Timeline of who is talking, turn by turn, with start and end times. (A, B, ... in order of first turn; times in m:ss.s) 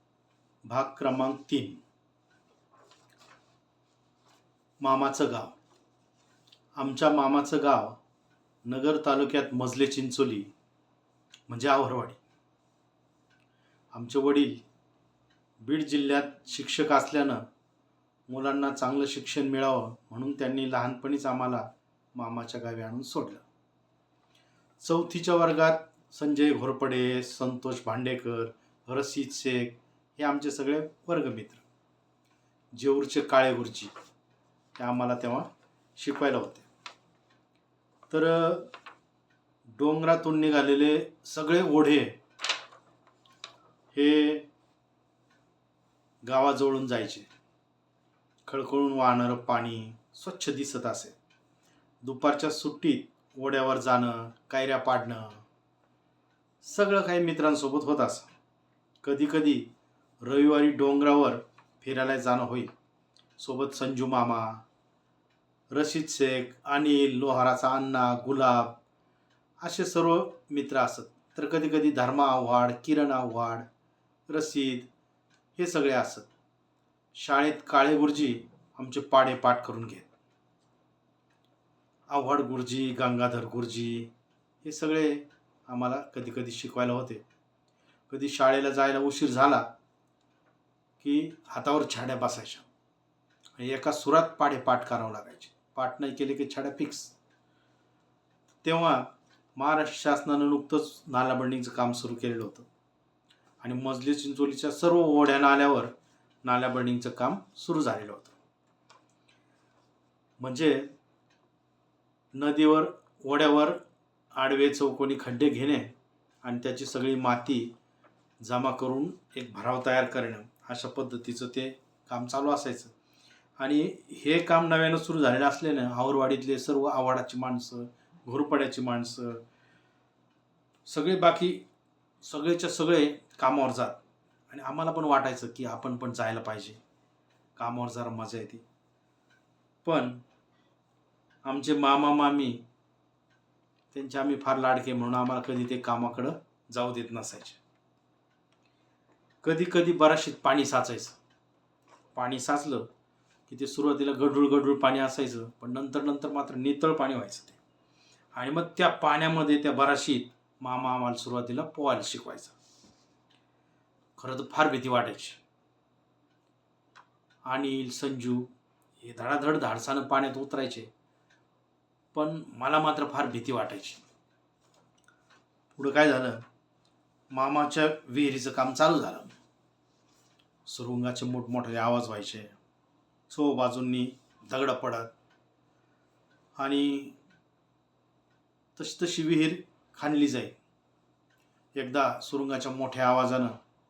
0:00.6-0:01.8 A
0:04.8-0:05.6 A
0:06.8-0:08.0 A
0:08.6-0:10.5 A
0:11.5-0:12.2 A
0:13.9-0:14.6 A
0:15.6-0:17.4 A
0:18.3-0:23.4 A
0:24.8-0:31.6 A
0:32.7-0:33.9 A
0:34.8-0:36.7 A
0:38.1-0:38.7 A
0:39.7-0:42.2 A
0:43.9-0:44.5 A
0:46.2-0:47.3 A
0:48.5-0:51.2 A
0:52.0-0:55.4 A
0:56.6-0:58.3 A
0:59.0-1:02.7 A
1:03.4-1:04.6 A
1:05.7-1:08.8 A
1:09.6-1:13.7 A
1:14.3-1:14.9 A
1:15.6-1:16.3 A
1:17.1-1:20.1 A
1:22.1-1:24.1 A
1:24.6-1:27.2 A
1:28.1-1:29.7 A
1:31.0-1:32.6 A
1:33.6-1:37.2 A
1:38.6-1:42.7 A
1:43.6-1:48.4 A
1:50.4-1:50.9 A
1:52.3-1:53.8 A
1:54.4-1:57.7 A
1:58.4-2:02.9 A
2:03.6-2:09.4 A
2:10.9-2:11.6 A
2:12.2-2:16.8 A
2:17.6-2:18.6 A
2:19.8-2:20.2 A
2:21.4-2:22.6 A
2:23.9-2:27.6 A
2:29.4-2:31.2 A
2:32.2-2:32.9 A
2:33.5-2:37.6 A
2:38.3-2:42.6 A
2:44.2-2:45.4 A
2:47.5-2:48.5 A
2:49.0-2:50.9 A
2:52.1-2:54.0 A
2:55.8-2:56.4 A
2:57.3-2:59.3 A
3:00.7-3:02.5 A
3:03.3-3:05.1 A
3:06.6-3:07.2 A
3:08.8-3:10.6 A
3:11.8-3:13.6 A